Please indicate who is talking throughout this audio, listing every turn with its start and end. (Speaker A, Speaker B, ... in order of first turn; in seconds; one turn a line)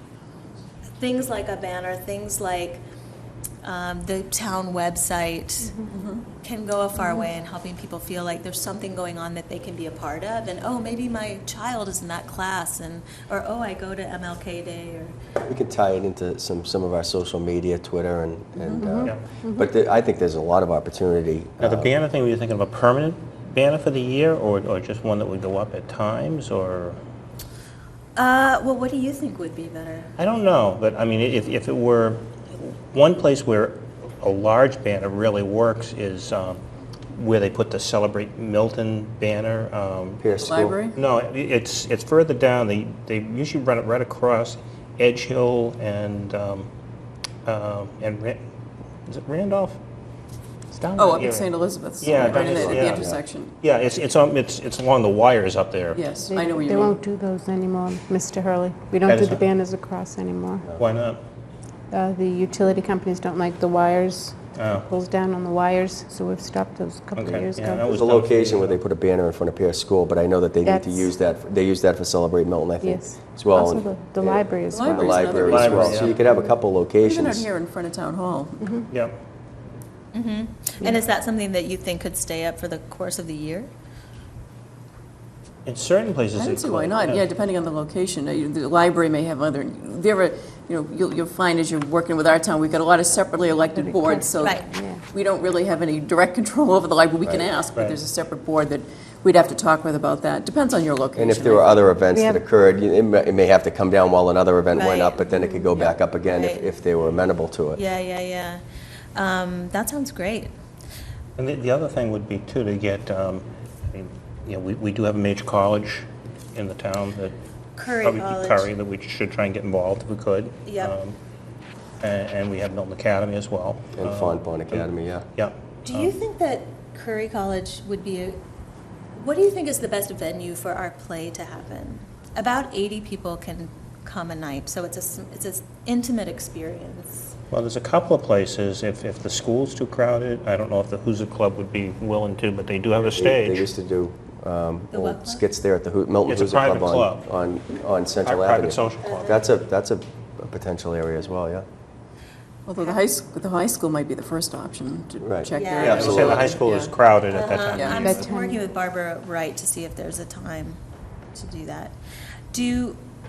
Speaker A: 1.0-2.8
Speaker A: 3.6-5.8
Speaker B: 5.9-6.2
Speaker A: 6.4-15.2
Speaker C: 15.5-21.9
Speaker D: 18.6-19.7
Speaker E: 21.6-27.0
Speaker A: 28.2-30.1
Speaker E: 30.2-36.6
Speaker E: 37.1-40.2
Speaker C: 40.2-40.8
Speaker B: 40.4-41.0
Speaker E: 41.0-46.7
Speaker E: 47.5-48.4
Speaker E: 49.1-49.8
Speaker E: 50.7-53.1
Speaker B: 51.0-53.5
Speaker C: 52.2-53.2
Speaker E: 53.6-56.0
Speaker B: 55.9-57.0
Speaker D: 56.3-60.7
Speaker E: 59.1-59.5
Speaker E: 60.8-61.2
Speaker D: 61.9-67.9
Speaker E: 64.5-64.9
Speaker E: 67.2-68.8
Speaker C: 67.9-77.5
Speaker D: 70.6-71.1
Speaker D: 72.8-76.5
Speaker B: 74.7-76.2
Speaker E: 75.5-76.2
Speaker B: 77.0-78.7
Speaker D: 78.6-78.9
Speaker E: 78.9-79.2
Speaker A: 80.1-83.7
Speaker E: 85.7-87.3
Speaker B: 86.3-101.9
Speaker D: 93.4-95.0
Speaker C: 101.2-107.8
Speaker D: 102.1-102.4
Speaker A: 104.7-105.2
Speaker D: 105.4-105.9
Speaker A: 106.3-106.7
Speaker A: 107.8-108.6
Speaker A: 109.2-110.5
Speaker E: 111.4-117.3
Speaker A: 117.8-118.7
Speaker E: 118.0-121.2
Speaker A: 120.7-121.0
Speaker E: 122.0-126.1
Speaker C: 124.0-125.3
Speaker A: 125.8-128.4
Speaker A: 129.2-137.4
Speaker E: 137.5-143.7
Speaker C: 143.1-151.7
Speaker A: 144.9-145.4
Speaker E: 146.3-147.2
Speaker E: 148.3-149.3
Speaker A: 149.0-149.4
Speaker B: 152.7-156.9
Speaker C: 155.2-156.6
Speaker A: 155.5-156.2
Speaker E: 155.8-158.3
Speaker A: 157.3-160.8
Speaker B: 157.7-158.1
Speaker D: 158.0-158.6
Speaker A: 161.3-162.0
Speaker A: 162.5-163.0